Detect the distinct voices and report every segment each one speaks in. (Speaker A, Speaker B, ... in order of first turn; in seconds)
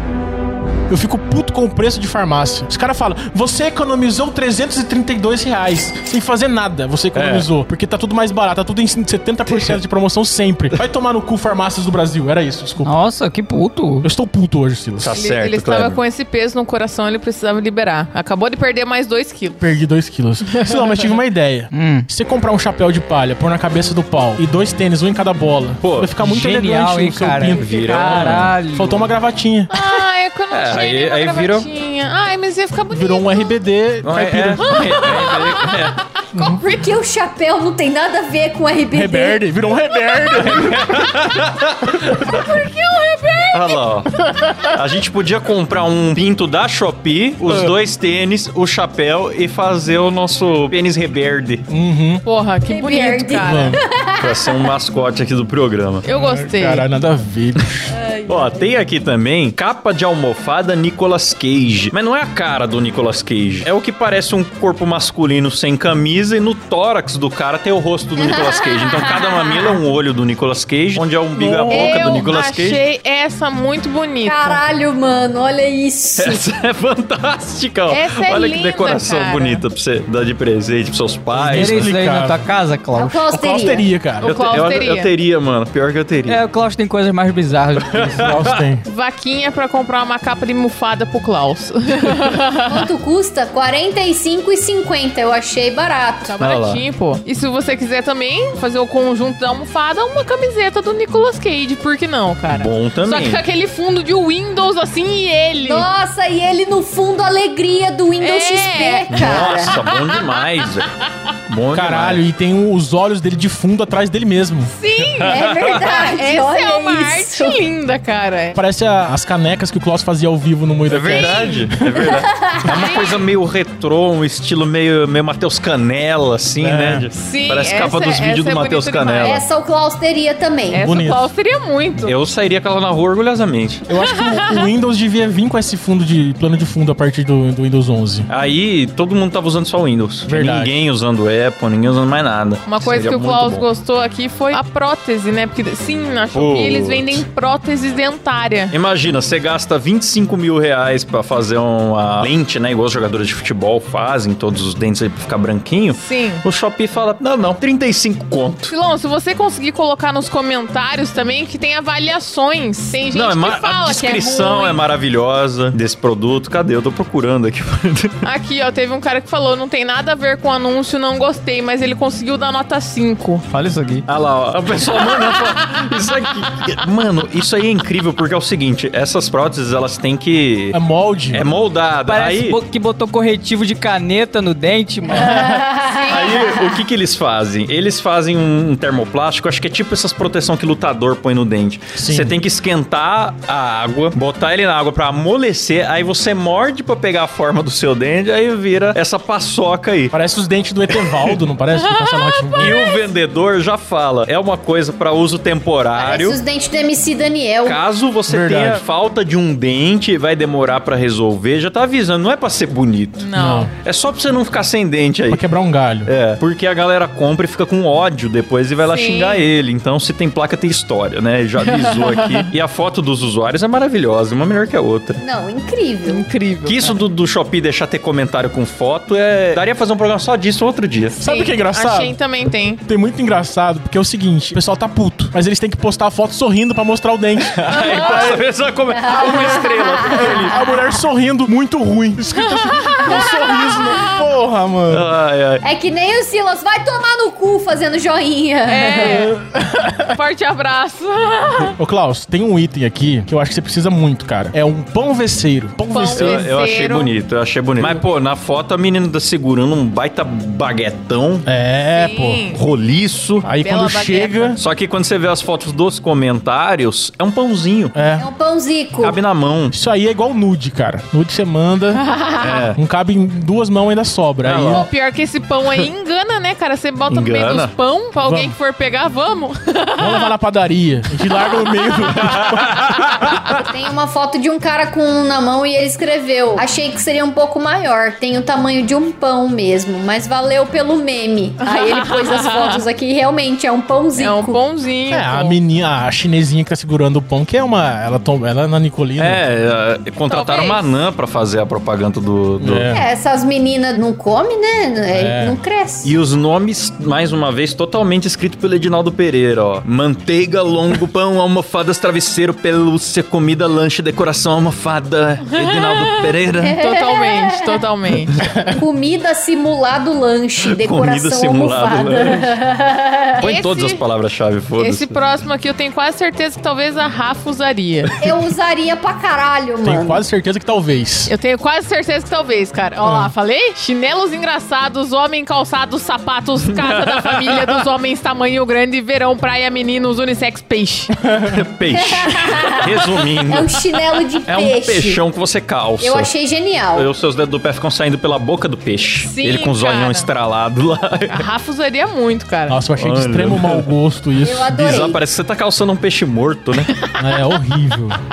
Speaker A: 0.9-12.9, 14.0-15.2, 19.6-29.7, 32.9-34.9, 36.3-36.6, 38.9-41.0, 44.4-44.7, 47.4-47.7, 51.7-52.2, 53.4-53.8, 56.1-57.9, 81.3-82.5, 83.3-84.3, 88.2-88.8, 111.7-114.7, 118.6-122.1, 126.6-127.1, 130.8-131.3, 133.9-138.3, 140.3-140.8, 180.7-181.5, 191.9-192.4, 200.1-202.8, 208.3-208.8, 213.4-213.7, 215.3-216.1, 231.2-232.2, 232.9-238.4, 240.0-245.1, 249.0-250.2, 251.8-256.5, 261.5-262.4, 263.4-264.6, 267.9-268.3, 269.7-272.0, 272.8-274.9, 278.2-278.6, 280.0-283.2, 295.1-299.4, 302.6-303.1, 305.1-305.6, 329.8-331.3, 333.0-333.3, 341.2-341.6, 352.7-354.9, 357.2-358.2
Speaker B: 7.1-7.5, 9.5-9.8, 15.0-16.0, 25.8-26.1, 27.5-28.5, 30.5-31.7, 34.0-36.0, 40.4-42.4, 43.5-44.1, 44.7-51.6, 54.2-56.0, 58.3-72.8, 76.2-82.0, 84.2-86.4, 87.8-88.6, 96.4-96.8, 102.5-103.4, 109.1-110.9, 111.5-112.2, 115.2-115.9, 120.9-129.4, 132.0-133.8, 138.3-143.7, 146.3-147.2, 148.7-158.7, 163.1-168.2, 174.1-180.8, 181.3-182.6, 186.1-200.2, 201.0-201.4, 202.6-206.4, 207.7-215.4, 216.1-225.2, 226.7-231.2, 237.4-240.6, 244.9-245.6, 256.1-261.5, 262.5-263.5, 264.6-267.9, 269.0-269.8, 272.4-272.8, 274.4-274.9, 277.1-277.7, 282.1-283.6, 299.2-302.9, 306.0-316.8, 320.6-322.6, 323.4-325.2, 336.7-337.8, 341.5-343.8, 344.5-346.3, 346.9-351.5, 353.0-353.9, 354.7-356.9
Speaker C: 12.8-14.1, 21.7-22.1, 26.2-29.1, 81.5-83.3, 86.3-88.4, 173.5-174.1, 182.1-185.6
Speaker D: 15.1-19.8, 20.5-21.2, 29.7-33.5, 34.6-36.6, 40.5-41.5, 42.1-44.5, 52.2-53.8, 56.0-56.9, 71.3-74.6, 77.9-79.6, 84.2-85.1, 88.8-92.8, 96.3-105.9, 108.2-110.7, 114.7-118.6, 121.0-121.7, 122.7-123.2, 127.1-129.4, 130.7-132.2, 134.1-134.7, 142.7-148.8, 155.9-156.4, 158.7-164.8, 168.2-173.4, 185.8-186.5, 201.7-203.0, 213.2-213.7, 218.8-219.4, 221.7-222.5, 226.1-226.9, 231.2-232.8, 237.7-238.4, 242.3-244.2, 248.7-249.3, 250.1-251.8, 255.9-257.1, 261.9-262.6, 263.4-264.6, 271.9-272.7, 274.7-280.3, 281.3-283.6, 291.6-292.8, 294.1-295.6, 300.3-300.9, 315.4-318.4, 323.4-324.0, 324.8-328.1, 331.3-341.1, 342.4-342.8, 349.2-350.3, 351.3-352.8, 356.9-357.6
Speaker E: 36.4-39.4, 52.7-54.7, 57.9-58.7, 68.2-69.8, 71.7-72.3, 74.2-76.5, 83.0-83.8, 92.7-96.4, 105.6-109.8, 115.2-117.6, 122.2-123.0, 129.2-130.8, 185.1-186.8, 206.0-207.8, 225.2-226.2, 238.9-241.0, 243.1-244.0, 245.6-249.3, 268.2-269.2, 283.5-294.6, 302.9-306.1, 316.6-317.8, 318.7-323.5, 328.2-330.2, 341.9-342.9, 343.5-345.2, 346.0-347.1, 354.4-355.2